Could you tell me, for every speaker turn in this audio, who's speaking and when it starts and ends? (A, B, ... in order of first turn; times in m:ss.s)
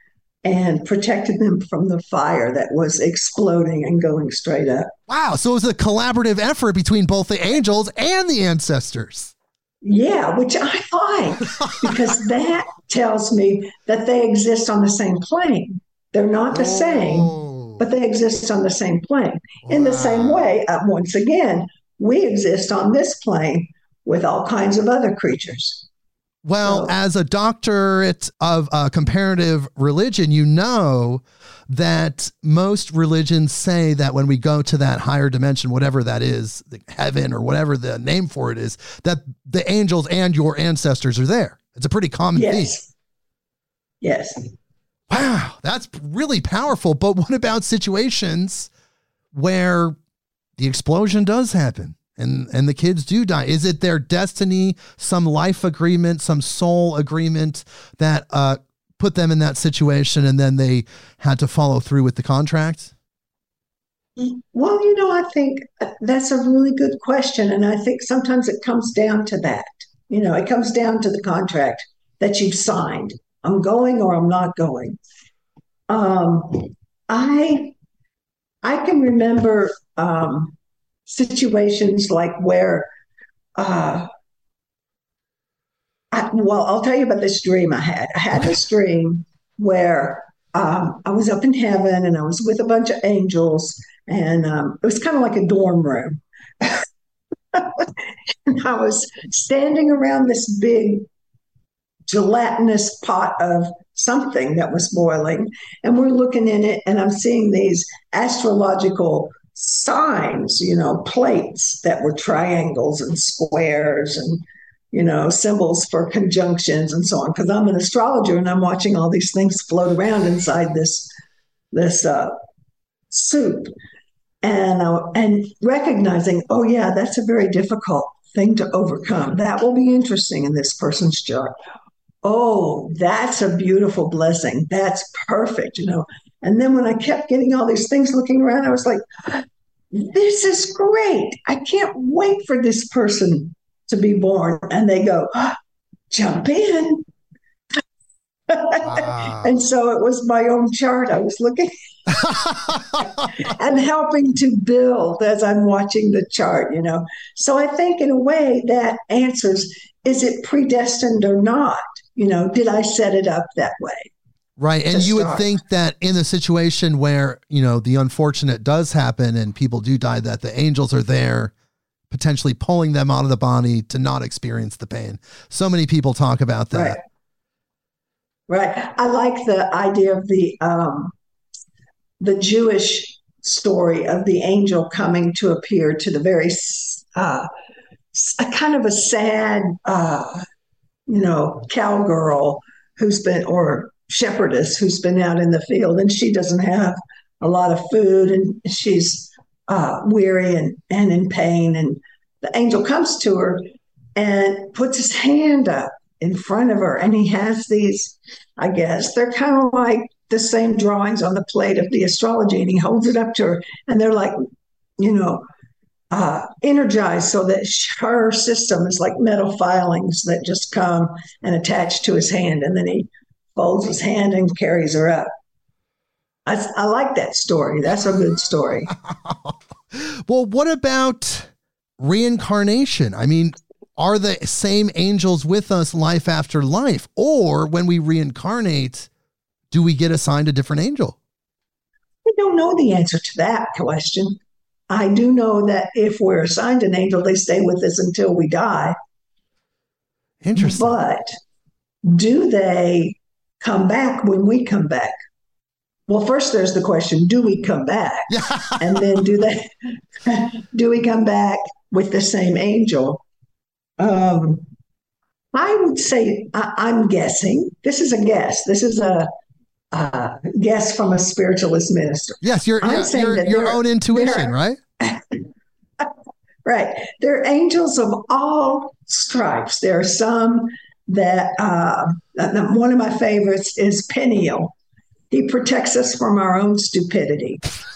0:00.4-0:04.9 A
0:05.1-0:09.3 B
0:09.8-0:25.9 A
0:11.7-0:12.0 B
0:16.5-0:17.8 B
0:19.6-0:20.6 B
0:26.4-0:42.8 B
0:26.6-0:26.9 A
0:42.3-0:42.9 A
0:44.0-0:44.5 A
0:45.1-0:48.7 B
0:49.3-0:50.0 B
0:50.6-1:02.9 B
1:04.2-1:15.0 A
1:15.9-1:17.7 A
1:18.6-1:20.5 A
1:21.0-1:22.9 A
1:23.6-1:24.1 A
1:26.1-1:36.8 A
1:37.5-1:41.1 A
1:42.1-2:01.1 A
2:01.7-2:02.4 A
2:03.1-2:03.7 A
2:04.4-2:11.5 A
2:12.2-2:25.6 A
2:26.1-2:27.0 A
2:28.5-2:44.1 A
2:28.8-2:29.5 B
2:32.2-2:33.1 B
2:44.6-2:51.5 B
2:44.9-2:45.5 A
2:52.1-2:57.0 B
2:56.7-2:57.0 A
2:58.5-3:01.1 A
3:02.2-3:07.5 A
3:08.1-3:10.4 A
3:11.1-3:23.6 A
3:24.2-3:34.4 A
3:35.0-3:35.4 A
3:36.1-3:45.3 A
3:46.4-3:48.9 A
3:48.9-3:59.1 B
3:59.7-4:01.2 B
4:02.2-4:04.4 A
4:04.9-4:09.0 A
4:10.4-4:10.9 B
4:10.6-4:11.3 A
4:12.0-4:15.1 A
4:16.1-4:23.2 A
4:18.3-4:19.0 B
4:24.0-4:24.6 A
4:25.5-4:29.3 A
4:29.9-4:35.4 A
4:32.4-4:34.8 B
4:36.6-4:44.7 A
4:45.3-4:47.6 A